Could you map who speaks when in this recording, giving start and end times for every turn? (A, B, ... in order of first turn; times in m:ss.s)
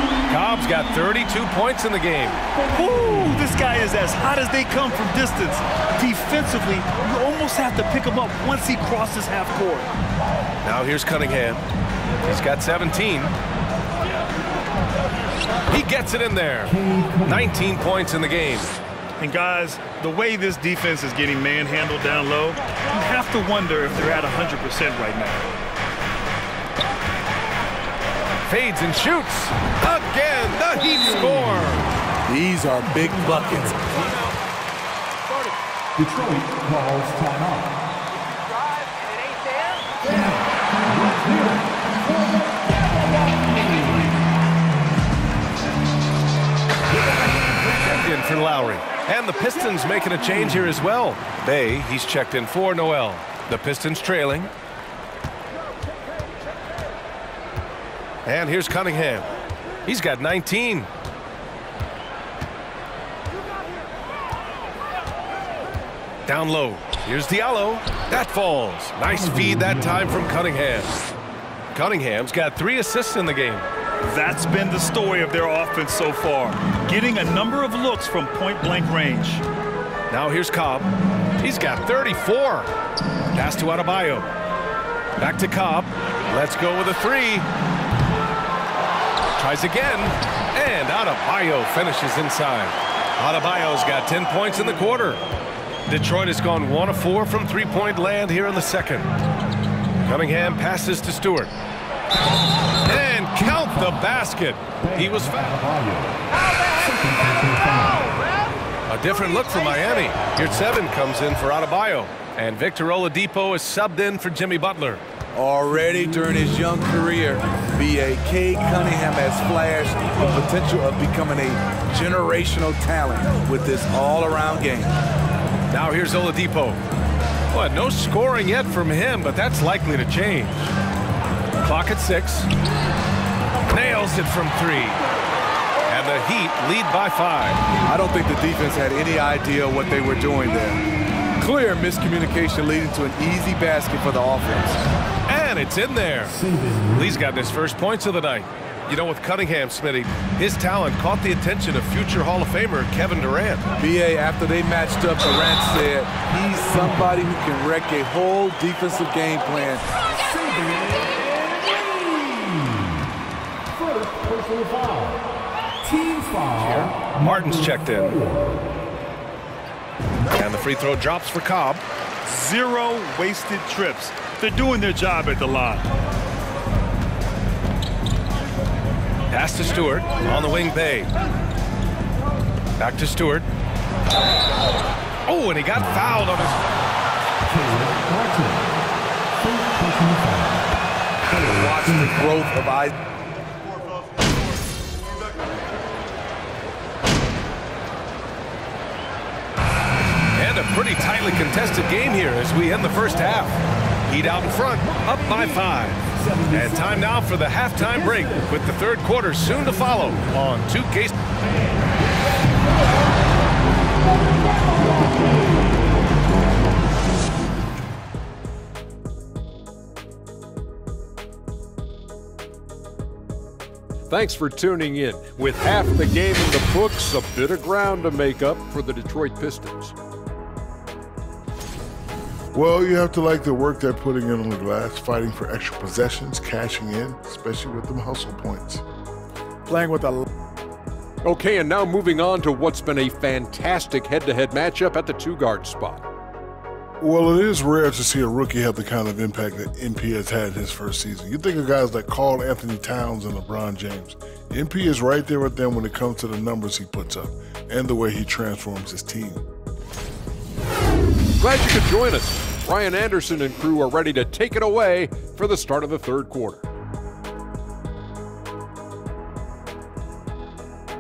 0:00.3-0:02.4 A
0:02.6-0:03.5 B
0:02.7-0:09.9 C
0:10.6-0:11.6 A
0:12.2-0:13.3 A
0:15.7-0:18.7 A
0:16.6-0:17.6 B
0:19.2-0:25.5 C
0:28.5-0:31.9 A
0:32.3-0:33.9 D
0:32.9-0:33.7 B
0:36.0-0:37.7 B
0:40.1-0:40.4 B
0:40.9-0:41.6 B
0:42.4-0:44.1 B
0:47.8-0:54.5 A
0:58.2-0:59.3 A
0:59.8-1:00.9 A
1:06.3-1:11.0 A
1:09.1-1:10.2 B
1:11.7-1:13.7 A
1:14.0-1:19.4 C
1:20.1-1:22.7 A
1:23.3-1:24.3 A
1:25.2-1:27.5 A
1:29.4-1:35.2 A
1:35.9-1:39.1 A
1:40.0-1:41.5 A
1:42.8-1:45.6 A
1:43.3-1:44.0 B
1:44.8-1:46.1 B
1:46.7-1:48.1 B
1:48.9-1:55.0 A
1:55.3-2:04.9 D
2:05.7-2:06.8 A
2:07.5-2:10.7 A
2:11.6-2:12.5 A
2:13.7-2:15.0 A
2:15.9-2:17.6 A
2:17.8-2:20.8 D
2:21.4-2:24.9 D
2:25.3-2:26.4 A
2:26.3-2:27.3 B
2:26.9-2:33.6 A
2:33.8-2:39.8 D
2:40.1-2:42.9 B
2:43.7-2:45.3 B
2:45.8-2:48.6 B
2:46.6-2:48.2 A
2:50.3-2:51.8 A
2:52.2-2:55.8 C
2:59.3-3:01.1 A
3:02.8-3:03.5 A
3:05.3-3:06.6 A
3:07.4-3:08.6 B
3:09.3-3:10.6 B
3:11.3-3:12.3 B
3:11.5-3:12.9 D
3:20.3-3:31.1 A
3:26.1-3:27.2 B
3:27.8-3:28.6 B
3:29.5-3:30.3 B
3:31.4-3:31.9 B
3:34.9-3:35.6 B
3:44.1-3:49.9 E
3:52.5-3:58.8 F
3:59.7-4:00.2 F
4:01.2-4:06.0 E
4:07.0-4:19.4 F
4:21.4-4:26.6 E